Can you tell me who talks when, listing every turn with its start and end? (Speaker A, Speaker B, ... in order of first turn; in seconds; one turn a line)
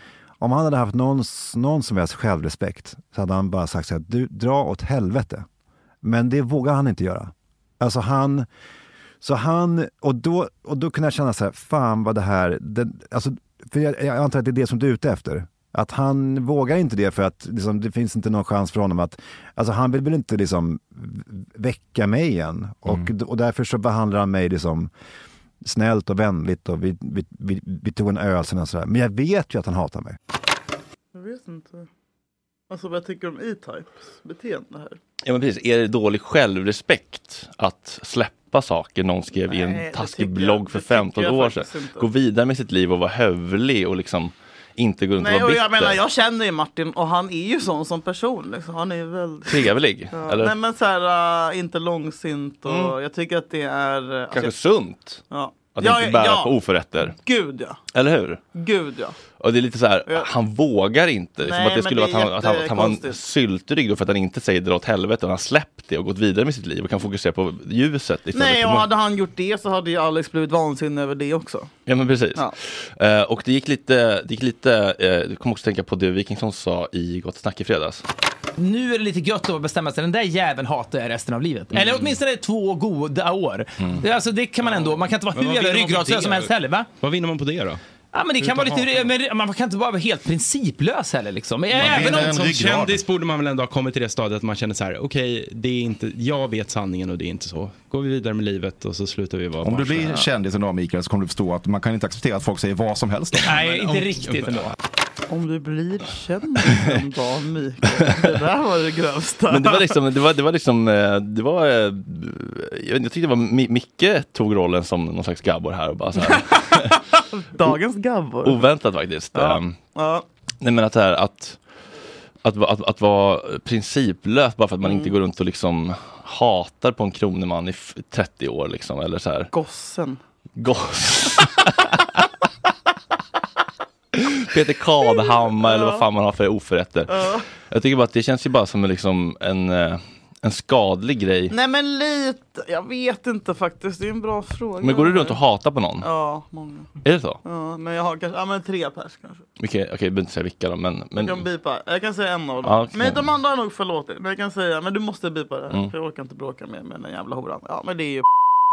Speaker A: 0.4-5.5
Speaker A: 6.0-8.5
Speaker A: 9.2-24.9
Speaker A: 25.6-30.2
Speaker B: 31.1-31.9
Speaker B: 32.7-35.0
Speaker C: 35.2-46.0
Speaker B: 39.5-42.1
Speaker B: 45.2-54.5
Speaker C: 49.5-50.5
Speaker C: 52.7-52.9
Speaker C: 54.3-55.2
Speaker B: 55.3-57.8
Speaker C: 55.8-57.1
Speaker C: 57.9-58.4
Speaker B: 58.5-59.2
Speaker C: 59.4-68.9
Speaker B: 61.4-63.2
Speaker B: 68.3-71.7
Speaker C: 71.9-78.0
Speaker D: 78.6-86.9
Speaker E: 84.6-87.8
Speaker D: 88.1-92.4
Speaker E: 88.4-89.1
Speaker E: 91.7-100.1
Speaker F: 91.8-93.0
Speaker F: 99.6-103.5
Speaker D: 103.4-104.7
Speaker E: 103.6-104.6
Speaker B: 105.3-109.9
Speaker C: 109.5-117.0
Speaker B: 116.3-118.7
Speaker C: 118.4-119.8
Speaker B: 119.3-120.2
Speaker C: 120.6-121.6
Speaker C: 122.4-129.5
Speaker B: 124.8-125.1
Speaker B: 129.5-130.2
Speaker C: 130.6-132.0
Speaker C: 134.1-141.5
Speaker B: 135.2-136.1
Speaker B: 137.1-137.5
Speaker B: 141.5-145.4
Speaker C: 144.8-146.1
Speaker B: 146.0-146.9
Speaker C: 147.0-147.4
Speaker B: 147.4-149.4
Speaker C: 149.6-151.4
Speaker B: 151.2-158.3
Speaker C: 152.6-153.3